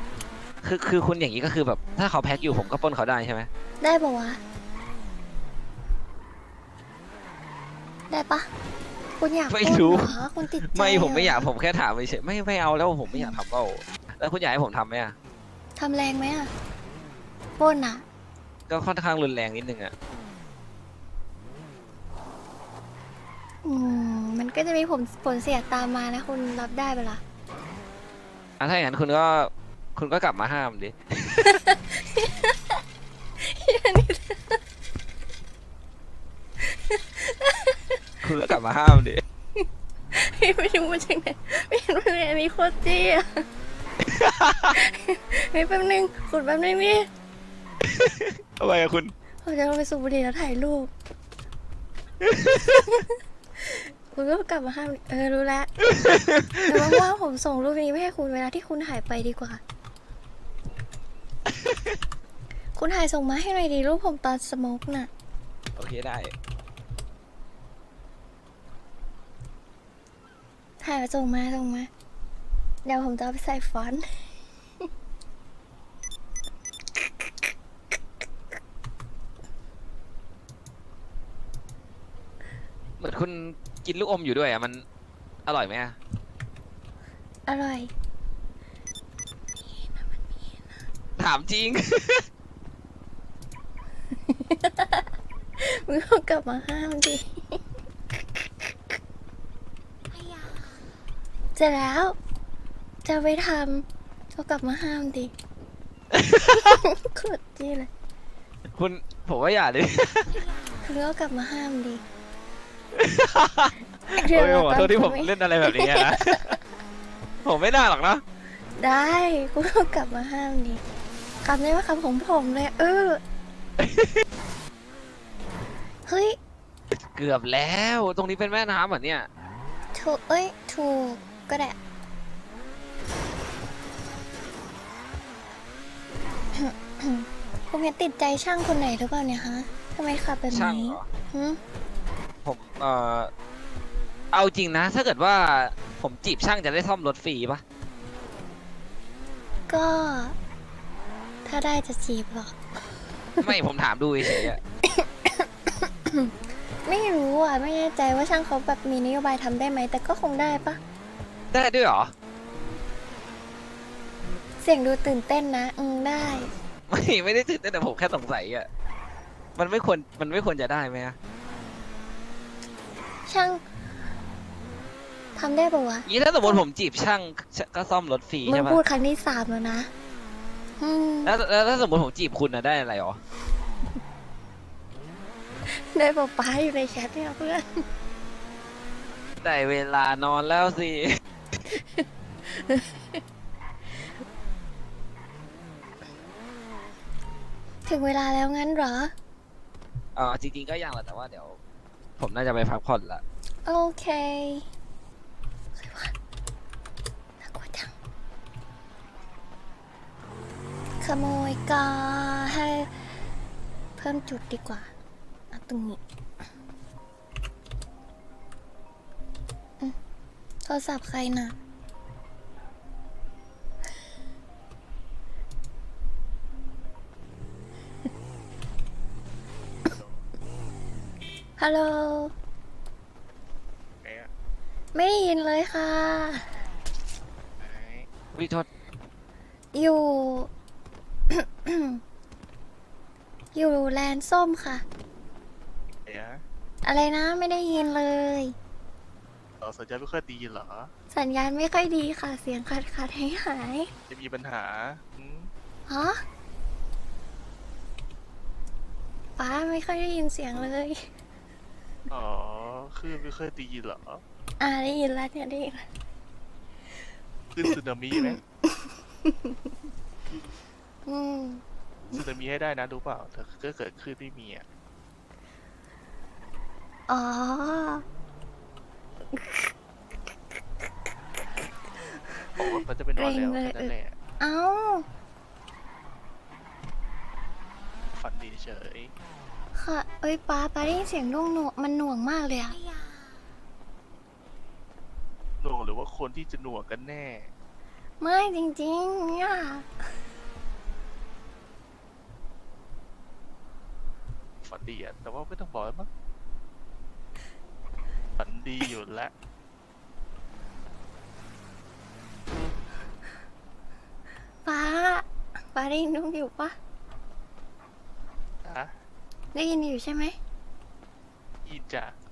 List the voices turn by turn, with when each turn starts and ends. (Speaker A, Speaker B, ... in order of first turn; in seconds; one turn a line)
Speaker A: 0.6-3.5
Speaker B: 3.8-4.4
Speaker B: 8.1-8.5
Speaker B: 9.2-11.5
Speaker A: 9.5-15.2
Speaker B: 13.1-13.4
Speaker B: 15.8-16.5
Speaker B: 17.6-18.0
Speaker A: 18.7-19.9
Speaker B: 23.6-27.2
Speaker A: 28.6-31.6
Speaker B: 31.5-32.8
Speaker B: 33.4-34.6
Speaker B: 36.6-38.0
Speaker A: 38.2-39.2
Speaker B: 39.6-43.5
Speaker A: 44.1-44.8
Speaker B: 44.8-47.1
Speaker A: 47.8-49.1
Speaker B: 49.4-50.9
Speaker A: 52.2-52.8
Speaker B: 53.6-55.7
Speaker A: 55.9-57.0
Speaker B: 56.7-59.6
Speaker A: 61.5-62.0
Speaker B: 62.8-65.1
Speaker A: 65.8-66.3
Speaker B: 70.8-71.9
Speaker B: 72.8-74.3
Speaker B: 77.0-77.5
Speaker A: 83.0-84.8
Speaker A: 85.5-86.0
Speaker B: 87.5-87.9
Speaker B: 89.6-90.7
Speaker A: 91.2-92.3
Speaker B: 94.3-99.0
Speaker B: 101.5-102.2
Speaker B: 103.0-105.3
Speaker A: 106.1-106.7
Speaker B: 106.5-107.9
Speaker A: 108.7-110.4
Speaker B: 110.8-112.0
Speaker A: 112.9-116.6
Speaker B: 114.2-116.5
Speaker A: 117.4-118.2
Speaker B: 118.8-120.8
Speaker B: 121.4-123.2
Speaker A: 123.8-124.2
Speaker B: 126.1-126.4
Speaker A: 127.2-129.3
Speaker B: 129.9-131.8
Speaker B: 136.5-141.6
Speaker A: 140.5-141.1
Speaker A: 142.4-143.3
Speaker A: 144.3-147.6
Speaker B: 149.7-150.4
Speaker B: 151.4-152.6
Speaker A: 153.4-154.6
Speaker B: 154.2-156.3
Speaker B: 156.8-160.8
Speaker A: 161.5-162.1
Speaker B: 164.6-166.5
Speaker A: 166.9-168.7
Speaker A: 169.6-171.2
Speaker B: 173.3-173.6
Speaker B: 175.3-176.6
Speaker A: 176.1-178.8
Speaker B: 178.4-179.9
Speaker B: 180.8-181.3
Speaker A: 181.2-183.2
Speaker B: 185.7-187.9
Speaker A: 189.4-191.2
Speaker B: 191.7-193.2
Speaker B: 197.9-199.1
Speaker A: 200.2-201.6
Speaker A: 202.2-203.2
Speaker B: 203.7-204.7
Speaker B: 205.8-206.1
Speaker B: 207.4-207.9
Speaker B: 211.0-213.0
Speaker B: 214.0-214.9
Speaker B: 215.5-216.0
Speaker B: 220.7-221.6
Speaker C: 229.9-230.2
Speaker B: 231.6-232.3
Speaker C: 234.0-234.3
Speaker B: 234.9-236.5
Speaker C: 237.6-238.1
Speaker A: 238.3-238.7
Speaker B: 239.7-240.5
Speaker B: 241.3-242.0
Speaker B: 243.5-244.8
Speaker C: 246.1-246.4
Speaker B: 246.8-248.6
Speaker C: 249.6-250.9
Speaker B: 251.1-253.9
Speaker C: 254.1-255.5
Speaker B: 255.9-256.2
Speaker B: 259.4-261.1
Speaker C: 262.1-264.2
Speaker B: 264.6-265.9
Speaker C: 267.5-268.4
Speaker B: 268.1-269.6
Speaker B: 271.1-271.6
Speaker C: 272.1-274.6
Speaker B: 277.1-278.1
Speaker B: 279.3-279.7
Speaker B: 282.3-285.1
Speaker C: 282.6-284.1
Speaker C: 288.1-289.1
Speaker B: 289.7-292.8
Speaker C: 295.6-297.5
Speaker B: 298.2-299.9
Speaker C: 304.6-306.1
Speaker C: 308.4-309.3
Speaker B: 314.6-316.8
Speaker C: 318.6-318.9
Speaker B: 319.5-320.4
Speaker C: 321.7-322.2